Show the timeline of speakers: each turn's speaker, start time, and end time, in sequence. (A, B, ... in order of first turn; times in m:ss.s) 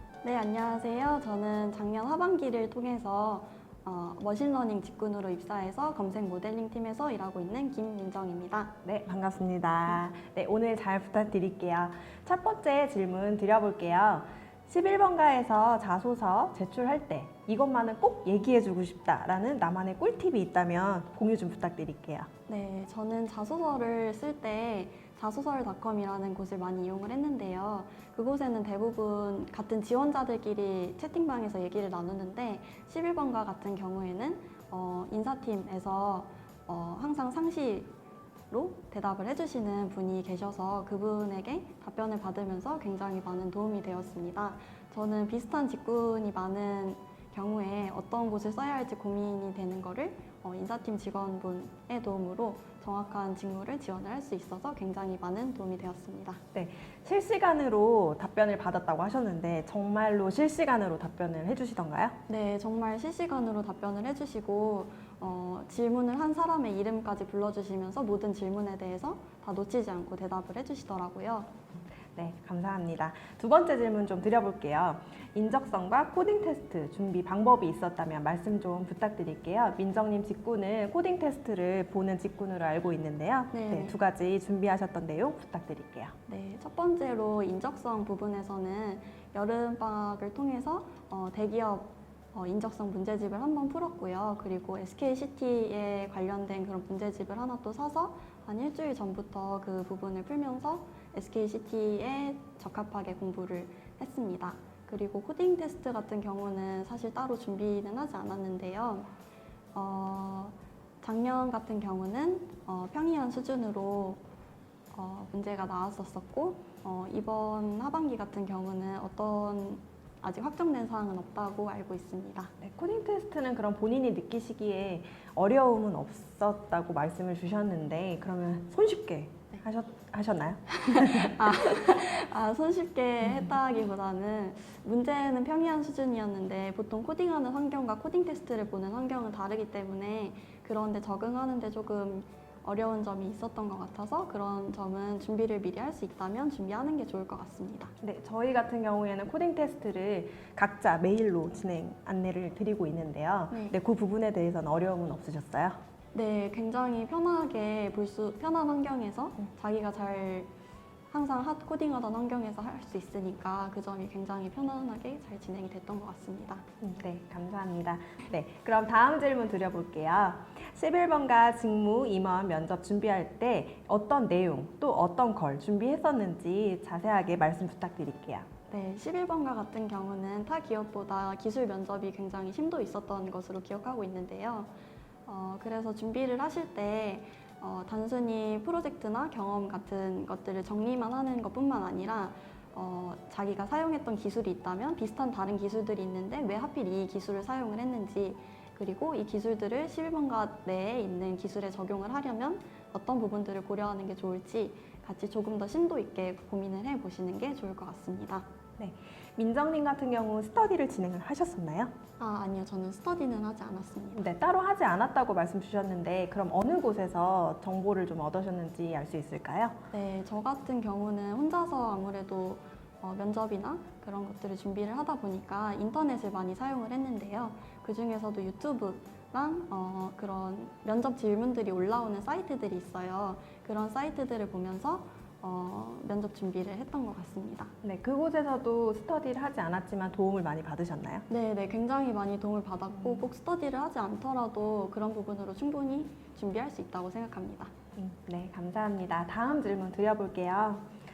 0:00.2-0:08.7 A
0:08.8-0:22.3 B
0:22.5-0:37.9 A
0:38.5-0:56.4 A
0:56.5-1:02.2 B
1:02.3-1:11.5 A
1:12.1-1:26.1 B
1:23.5-1:23.9 A
1:26.3-1:49.1 A
1:49.7-1:54.2 A
1:54.9-2:02.5 A
2:02.6-2:11.8 B
2:10.7-2:27.9 A
2:28.0-2:35.8 B
2:36.1-2:40.5 A
2:41.1-2:46.6 A
2:46.8-2:58.5 B
2:58.7-3:04.7 A
3:05.2-3:28.5 A
3:28.8-3:31.9 B
3:32.2-3:34.2 A
3:34.2-3:39.8 B
3:39.9-3:57.7 A
3:57.8-4:01.2 B
4:01.3-4:07.7 A
4:02.9-4:03.3 B
4:08.0-4:10.9 B